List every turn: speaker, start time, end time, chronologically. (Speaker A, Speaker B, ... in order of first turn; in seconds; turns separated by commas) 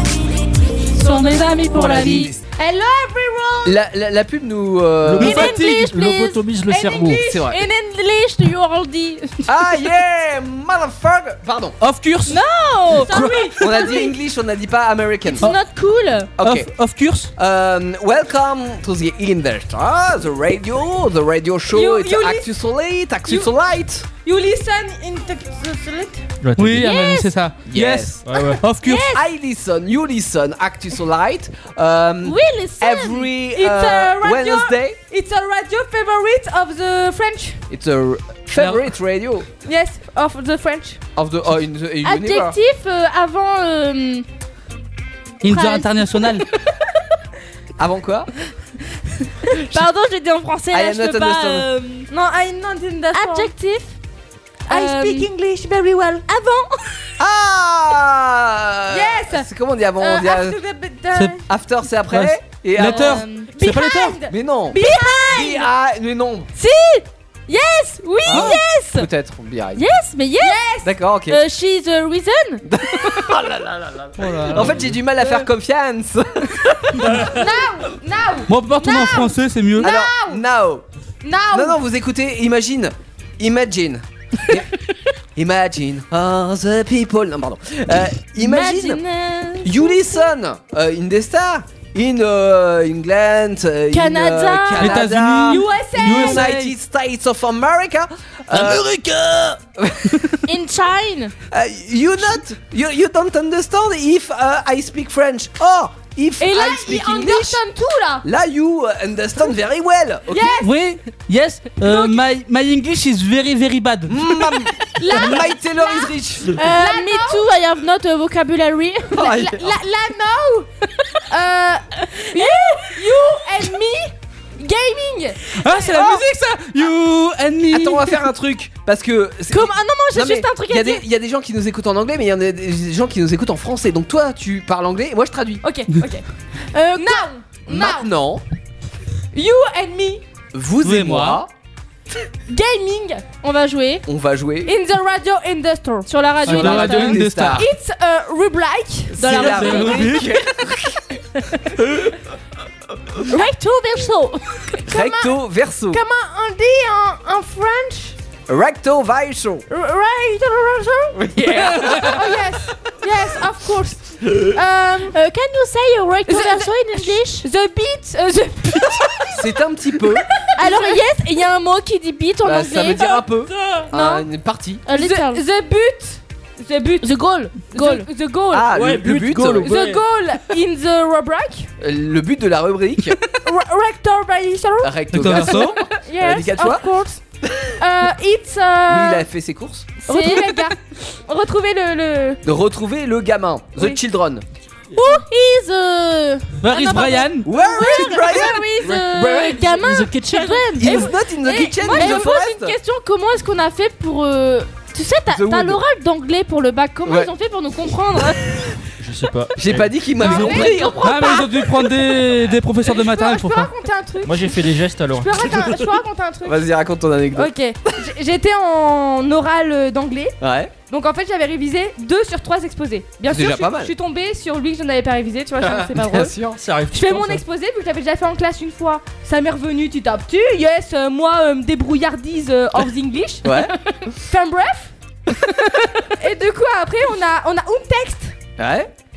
Speaker A: 1.0-2.3, Speaker B: 1.0-3.7, Speaker C: 1.7-2.3, Speaker D: 3.6-5.5, Speaker E: 5.0-7.3, Speaker A: 5.2-9.5, Speaker B: 6.7-7.5, Speaker D: 7.2-7.6, Speaker D: 9.5-11.8, Speaker C: 11.8-12.4, Speaker A: 12.3-14.1, Speaker C: 13.0-13.3, Speaker B: 13.0-13.9, Speaker E: 13.1-13.9, Speaker D: 13.6-15.5, Speaker A: 15.3-16.3, Speaker D: 16.4-16.7, Speaker C: 16.4-17.3, Speaker D: 17.4-24.1, Speaker B: 21.7-22.5, Speaker B: 23.3-23.5, Speaker B: 24.2-26.2, Speaker E: 26.4-26.9, Speaker C: 26.6-29.1, Speaker A: 26.8-27.3, Speaker D: 27.7-28.2, Speaker E: 28.3-28.6, Speaker A: 28.9-29.2, Speaker D: 29.1-35.0, Speaker A: 32.2-33.3, Speaker B: 33.5-37.6, Speaker D: 37.7-39.5, Speaker C: 38.6-38.9, Speaker B: 39.6-41.0, Speaker D: 41.2-42.6, Speaker A: 42.0-44.2, Speaker C: 45.4-46.5, Speaker A: 45.5-46.5, Speaker D: 47.8-48.3, Speaker A: 49.4-52.1, Speaker D: 50.7-51.7, Speaker B: 52.1-53.5, Speaker A: 53.1-53.9, Speaker A: 54.7-55.3, Speaker B: 54.7-56.3, Speaker A: 56.3-56.7, Speaker D: 57.2-60.6, Speaker B: 58.9-59.5, Speaker B: 60.0-61.4, Speaker C: 61.1-64.2, Speaker D: 61.5-63.2, Speaker B: 62.9-65.7, Speaker A: 62.9-63.5, Speaker D: 64.3-66.5, Speaker A: 64.8-65.5, Speaker A: 66.6-69.1, Speaker D: 68.3-69.8, Speaker C: 68.3-68.6, Speaker A: 69.8-70.6, Speaker B: 70.4-70.9, Speaker D: 70.8-71.4, Speaker A: 71.3-72.6, Speaker D: 72.7-77.3, Speaker C: 74.2-74.8, Speaker E: 74.5-75.0, Speaker B: 77.2-80.4, Speaker C: 78.5-79.9, Speaker D: 79.8-80.8, Speaker B: 81.2-81.8, Speaker D: 81.5-84.7, Speaker D: 85.4-89.0, Speaker A: 88.4-90.2, Speaker D: 89.6-99.0, Speaker A: 93.9-95.0, Speaker C: 94.8-96.5, Speaker B: 95.5-96.6, Speaker A: 96.2-96.6, Speaker C: 98.5-98.9, Speaker D: 99.8-100.4, Speaker A: 100.5-101.3, Speaker D: 101.5-107.6, Speaker B: 106.4-108.2, Speaker D: 108.2-110.6, Speaker B: 110.3-110.7, Speaker C: 110.6-114.2, Speaker B: 111.9-112.1, Speaker D: 114.1-116.6, Speaker B: 115.0-117.4, Speaker A: 116.5-119.2, Speaker B: 119.2-120.7, Speaker D: 119.2-119.8, Speaker B: 121.3-126.2, Speaker A: 122.3-122.9, Speaker C: 125.5-128.2, Speaker D: 127.7-135.6, Speaker B: 129.5-131.0, Speaker A: 129.6-131.0, Speaker B: 135.6-136.2, Speaker A: 136.7-137.3, Speaker B: 136.9-138.1, Speaker D: 137.7-138.4, Speaker B: 139.3-140.2, Speaker D: 140.5-141.5, Speaker C: 140.8-141.4, Speaker B: 142.5-143.2, Speaker A: 143.3-144.1, Speaker D: 144.1-144.7, Speaker B: 144.7-146.1, Speaker A: 146.1-147.2, Speaker C: 146.4-147.7, Speaker D: 146.5-147.7, Speaker B: 147.5-149.4, Speaker D: 149.2-151.0, Speaker A: 149.2-150.1, Speaker C: 149.3-150.4, Speaker A: 153.3-154.8, Speaker B: 154.9-155.4, Speaker D: 154.9-156.0, Speaker B: 155.9-158.2, Speaker D: 158.5-159.7, Speaker B: 159.7-161.2, Speaker D: 161.2-162.3, Speaker B: 161.7-165.2, Speaker A: 165.0-167.5, Speaker B: 166.3-169.4, Speaker D: 169.3-170.3, Speaker B: 170.5-171.0, Speaker A: 170.6-173.2, Speaker D: 172.4-174.8, Speaker B: 173.9-174.2, Speaker A: 174.9-175.4, Speaker B: 174.9-177.1, Speaker A: 177.0-178.1, Speaker B: 177.7-178.7, Speaker D: 178.5-179.7, Speaker E: 178.7-180.1, Speaker B: 179.6-181.7, Speaker D: 181.8-183.2, Speaker B: 183.4-187.2, Speaker D: 184.8-186.8, Speaker C: 185.1-185.8, Speaker B: 187.8-189.2, Speaker D: 188.9-190.0, Speaker A: 190.0-190.7, Speaker B: 190.1-192.4, Speaker D: 192.4-194.4, Speaker A: 194.9-208.4, Speaker C: 196.6-197.5, Speaker D: 197.5-198.7, Speaker B: 197.6-198.4, Speaker E: 198.8-200.8, Speaker D: 200.8-202.8, Speaker B: 200.8-201.1, Speaker B: 201.8-202.3, Speaker D: 205.3-205.8, Speaker D: 207.1-207.3, Speaker E: 209.0-210.9, Speaker D: 209.6-211.6, Speaker B: 210.2-211.9, Speaker C: 210.9-213.7, Speaker B: 212.8-214.6, Speaker E: 214.2-215.9, Speaker B: 215.1-216.6, Speaker D: 216.4-217.5, Speaker B: 217.4-220.4, Speaker D: 220.4-220.7, Speaker B: 220.9-226.3, Speaker D: 223.3-223.9, Speaker D: 225.6-226.6, Speaker E: 226.5-227.4, Speaker B: 226.9-234.9, Speaker D: 233.4-233.8, Speaker B: 236.0-238.3, Speaker D: 238.6-238.9